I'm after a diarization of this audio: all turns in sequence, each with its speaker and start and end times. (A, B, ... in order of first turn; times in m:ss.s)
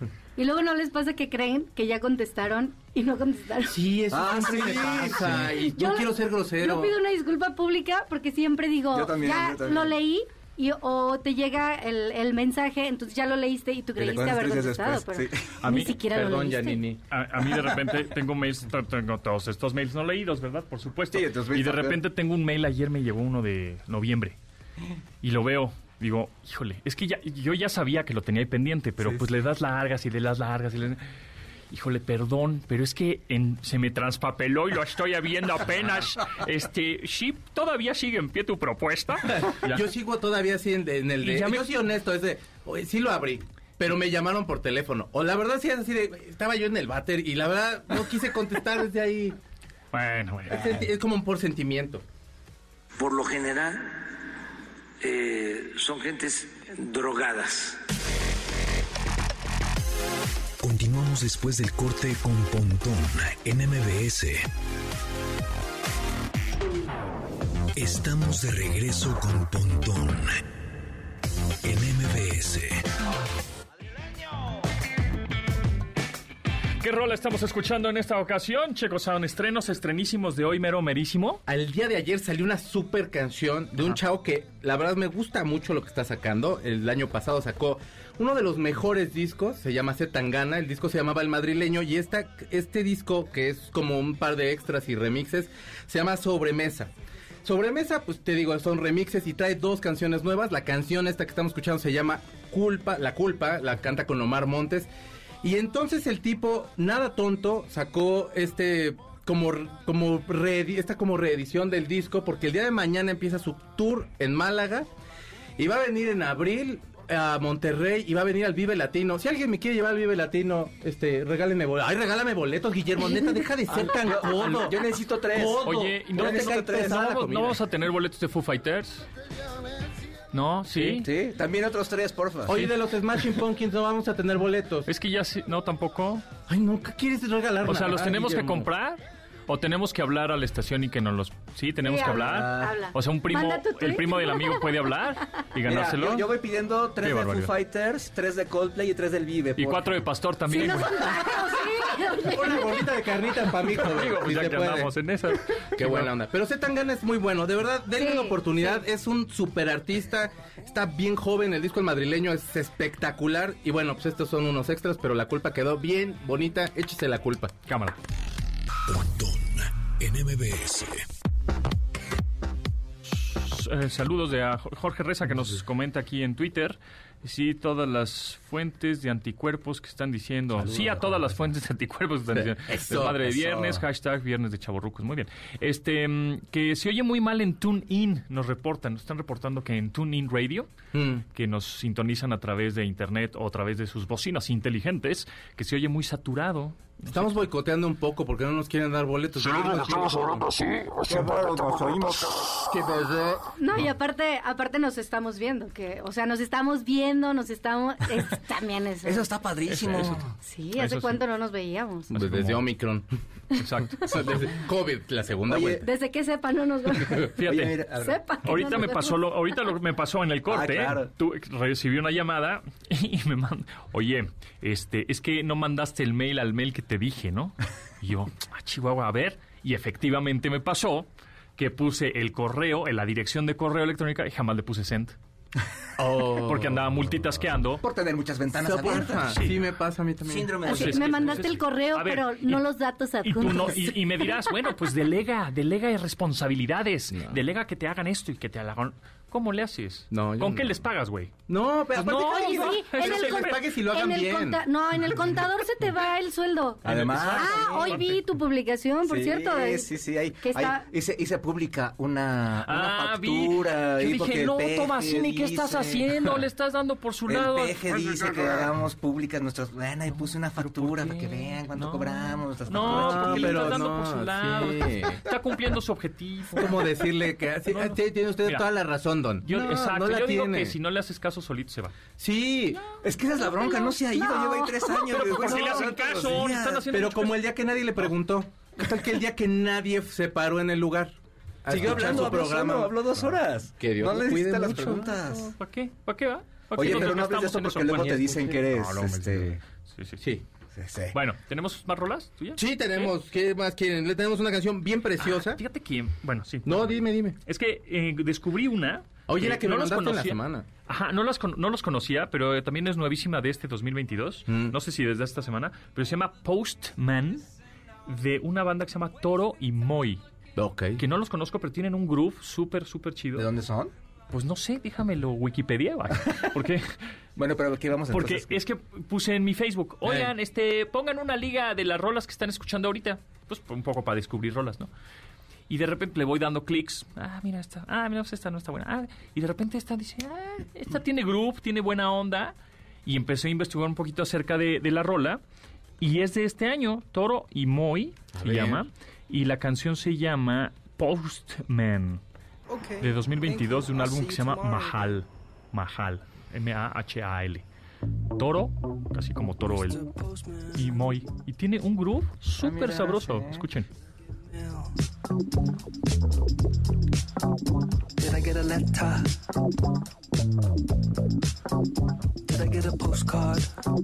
0:00.4-0:03.8 A
0:03.7-0:07.0 B
0:04.1-0:05.6 C
0:05.7-0:16.8 A
0:08.9-0:10.0 C
0:14.0-0:15.6 C
0:15.6-0:15.9 D
0:15.7-0:17.0 B
0:17.1-0:24.4 D
0:21.1-0:22.0 C
0:25.2-0:31.0 D
0:31.7-0:39.9 D
0:39.4-0:49.4 B
0:41.2-0:41.7 D
0:49.9-0:50.8 D
0:50.5-0:52.0 B
0:53.0-0:54.1 E
0:55.0-0:57.8 E
1:00.6-1:04.5 F
1:07.8-1:10.4 F
1:11.6-1:12.8 F
1:16.8-1:21.4 D
1:21.5-1:36.9 B
1:37.4-1:44.9 B
1:45.4-1:54.9 B
1:55.6-2:07.6 B
2:03.7-2:07.4 C
2:05.6-2:09.1 D
2:10.3-2:11.1 D
2:10.7-2:11.0 B
2:11.0-2:12.6 C
2:12.5-2:14.9 B
2:14.9-2:16.3 D
2:16.5-2:18.7 B
2:17.6-2:26.3 D
2:21.8-2:24.7 A
2:22.0-2:22.8 C
2:25.6-2:30.1 C
2:27.0-2:27.5 D
2:29.6-2:31.2 D
2:30.5-2:32.8 A
2:32.2-2:34.9 B
2:33.7-2:36.1 D
2:35.8-2:47.6 B
2:38.0-2:38.8 A
2:47.7-2:48.0 D
2:48.9-2:51.1 F
2:53.1-3:10.7 D
3:00.7-3:01.2 C
3:02.3-3:03.8 B
3:10.9-3:11.2 B
3:11.3-3:17.2 D
3:17.1-3:20.5 B
3:21.0-3:22.7 C
3:23.6-3:29.3 A
3:29.0-3:30.3 C
3:29.7-3:30.2 D
3:30.4-3:32.1 A
3:30.8-3:31.2 D
3:32.1-3:33.1 B
3:32.1-3:32.6 D
3:33.6-3:34.4 D
3:34.0-3:35.9 B
3:35.5-3:35.8 C
3:35.8-3:37.4 A
3:37.4-3:37.8 D
3:37.4-3:38.2 C
3:37.9-3:39.4 A
3:38.4-3:55.2 D
3:40.5-3:41.1 C
3:56.0-3:56.8 B
3:56.2-3:57.8 D
3:57.8-3:59.5 C
3:58.6-4:00.5 B
4:00.2-4:01.6 C
4:00.6-4:02.6 D
4:00.6-4:04.5 A
4:03.2-4:11.3 D
4:07.1-4:07.4 B
4:10.1-4:10.7 B
4:11.5-4:14.6 B
4:11.9-4:13.7 D
4:12.0-4:20.8 A
4:16.8-4:18.0 C
4:16.8-4:18.2 D
4:16.9-4:17.3 B
4:19.1-4:26.3 C
4:22.6-4:28.7 D
4:27.3-4:33.9 C
4:30.2-4:37.1 D
4:32.8-4:35.2 B
4:36.6-4:40.8 B
4:37.7-4:38.7 D
4:39.4-4:42.0 D
4:42.2-4:42.8 B
4:43.0-4:46.9 C
4:43.4-4:45.3 A
4:45.1-4:47.4 D
4:45.5-4:46.3 B
4:46.9-4:55.1 B
4:51.7-4:55.5 C
4:51.8-4:52.3 D
4:54.6-5:00.2 D
4:56.7-4:59.6 C
4:56.8-4:57.1 B
5:00.7-5:01.2 C
5:01.1-5:03.1 D
5:02.6-5:05.6 B
5:05.2-5:17.5 D
5:06.7-5:07.4 B
5:09.3-5:10.7 B
5:14.5-5:14.8 B
5:18.1-5:20.2 D
5:20.6-5:21.0 B
5:21.0-5:23.5 D
5:23.4-5:23.9 C
5:24.3-5:26.9 D
5:27.4-5:28.6 C
5:28.1-5:34.9 D
5:30.0-5:30.3 B
5:35.7-5:45.4 D
5:46.0-5:52.2 D
5:48.4-5:48.8 B
5:52.7-5:53.2 C
5:53.0-5:57.6 D
5:54.0-5:54.5 C
5:58.4-6:00.2 D
6:00.2-6:00.7 G
6:00.7-6:03.9 D
6:02.6-6:03.7 C
6:04.6-6:04.9 G
6:08.2-6:09.3 G
6:12.5-6:13.7 G